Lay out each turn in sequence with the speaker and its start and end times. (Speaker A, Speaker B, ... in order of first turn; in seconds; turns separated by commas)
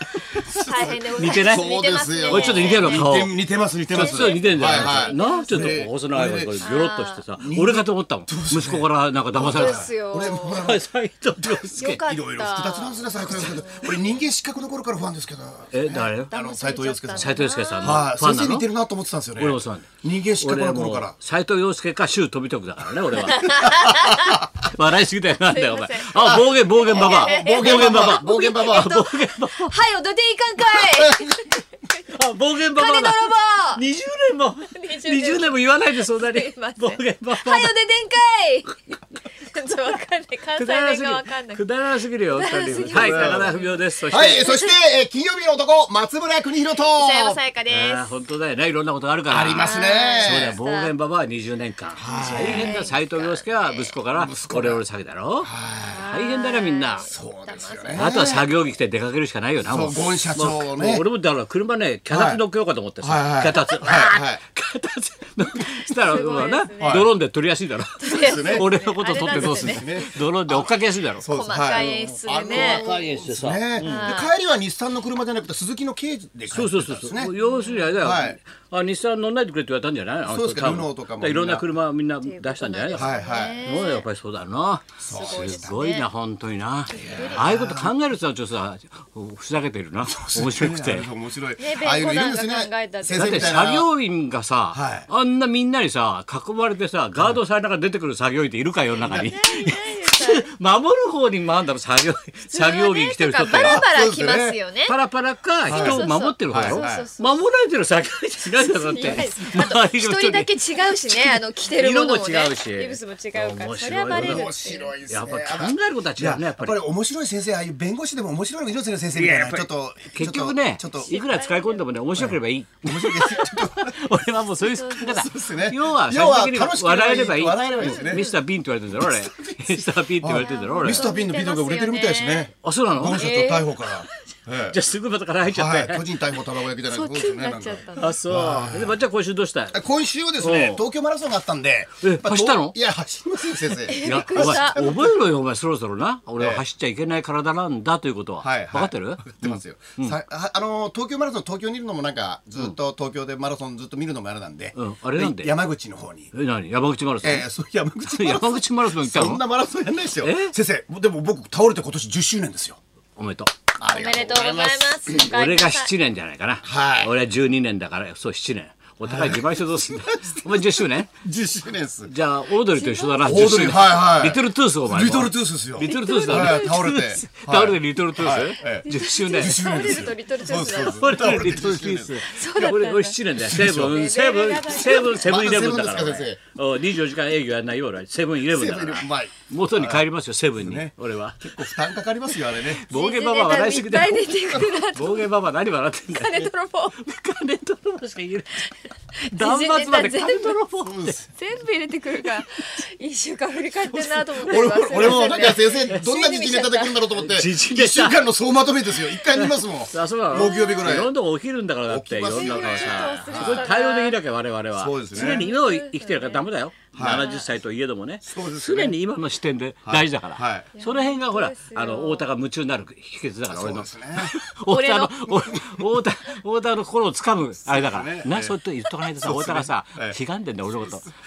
Speaker A: 0.3-3.2, Speaker B: 0.4-6.7, Speaker C: 1.1-1.7, Speaker C: 2.2-3.3, Speaker A: 3.9-5.8, Speaker C: 3.9-12.0, Speaker A: 6.6-7.2, Speaker B: 7.3-10.8, Speaker A: 9.4-10.8, Speaker B: 11.4-21.1, Speaker A: 11.8-14.2, Speaker C: 15.7-16.3, Speaker A: 16.3-18.0, Speaker C: 17.1-18.7, Speaker C: 19.4-29.7, Speaker A: 23.2-24.4, Speaker A: 25.4-31.6, Speaker B: 26.2-29.0, Speaker B: 30.7-31.4, Speaker C: 32.1-37.7, Speaker A: 32.7-33.8, Speaker A: 34.7-38.8, Speaker A: 39.4-41.6, Speaker C: 40.5-44.5, Speaker A: 42.3-44.8, Speaker B: 42.9-43.5, Speaker B: 44.1-47.4, Speaker A: 46.8-48.1, Speaker C: 47.7-57.1, Speaker B: 49.3-50.6, Speaker A: 49.6-50.9, Speaker B: 52.0-52.9, Speaker A: 52.0-53.8, Speaker B: 54.1-54.8, Speaker B: 55.4-56.0, Speaker A: 55.8-58.1, Speaker B: 57.1-58.5, Speaker C: 58.0-74.1, Speaker B: 59.7-61.0, Speaker B: 62.1-62.4, Speaker B: 63.0-64.4, Speaker A: 65.8-67.1, Speaker B: 66.8-67.1, Speaker A: 68.0-70.1, Speaker B: 68.2-68.7, Speaker B: 69.2-70.1, Speaker B: 71.2-77.3, Speaker A: 71.3-72.9, Speaker A: 73.8-74.3, Speaker C: 76.5-91.1, Speaker A: 77.4-77.9, Speaker B: 78.0-78.4, Speaker B: 80.3-81.7, Speaker A: 82.2-84.0, Speaker B: 82.9-83.8, Speaker A: 85.0-86.1, Speaker B: 85.0-85.8, Speaker A: 86.9-87.5, Speaker B: 86.9-87.9, Speaker B: 90.1-93.9, Speaker A: 91.6-93.6, Speaker C: 93.1-103.8, Speaker B: 94.7-95.1, Speaker B: 99.0-99.3, Speaker A: 99.1-100.5, Speaker A: 102.5-104.9, Speaker B: 103.5-104.6, Speaker C: 104.8-114.5, Speaker A: 105.7-107.4, Speaker B: 105.7-107.1, Speaker A: 108.4-115.0, Speaker B: 114.1-121.1, Speaker C: 115.0-116.8, Speaker C: 119.1-131.1, Speaker A: 120.9-121.9, Speaker B: 122.2-124.1, Speaker A: 123.3-123.6, Speaker A: 124.6-125.3, Speaker B: 125.0-128.4, Speaker A: 127.8-128.2, Speaker B: 128.9-134.8, Speaker A: 130.3-132.5, Speaker C: 132.6-133.3, Speaker A: 133.1-134.1, Speaker C: 134.7-136.1, Speaker B: 135.5-139.0, Speaker A: 136.8-138.1, Speaker C: 137.9-139.8, Speaker B: 139.7-145.2, Speaker C: 140.4-140.8, Speaker C: 142.0-142.8, Speaker A: 143.8-145.1, Speaker C: 144.0-150.2, Speaker B: 146.4-146.6, Speaker B: 148.4-156.3, Speaker C: 154.7-155.6, Speaker C: 156.3-157.5, Speaker B: 157.2-162.8, Speaker C: 158.0-159.4, Speaker C: 160.2-160.6, Speaker C: 163.2-163.5, Speaker B: 163.8-165.2, Speaker A: 163.8-165.9, Speaker C: 165.2-171.1, Speaker B: 166.6-167.2, Speaker B: 169.0-172.1, Speaker C: 172.1-180.1, Speaker A: 172.7-173.3, Speaker B: 173.2-182.2, Speaker A: 175.8-176.8, Speaker A: 178.6-181.4, Speaker C: 180.6-191.4, Speaker A: 182.2-185.3, Speaker B: 183.4-184.0, Speaker B: 185.1-186.4, Speaker B: 188.5-190.1, Speaker B: 190.6-192.9, Speaker C: 192.7-201.2, Speaker A: 192.9-195.3, Speaker A: 196.1-197.0, Speaker A: 199.1-200.6, Speaker B: 200.8-201.2, Speaker A: 201.3-207.1, Speaker C: 203.9-206.0, Speaker B: 204.4-211.1, Speaker C: 207.1-208.2, Speaker C: 209.2-231.1, Speaker A: 210.3-210.9, Speaker B: 211.8-213.7, Speaker A: 212.3-214.2, Speaker B: 214.7-215.5, Speaker A: 215.1-216.4, Speaker B: 216.9-217.3, Speaker A: 217.0-217.4, Speaker B: 218.2-219.0, Speaker B: 219.8-220.7, Speaker A: 220.8-222.2, Speaker B: 223.5-224.3, Speaker A: 224.7-225.5, Speaker B: 225.3-225.8, Speaker B: 227.7-228.6, Speaker B: 229.2-230.2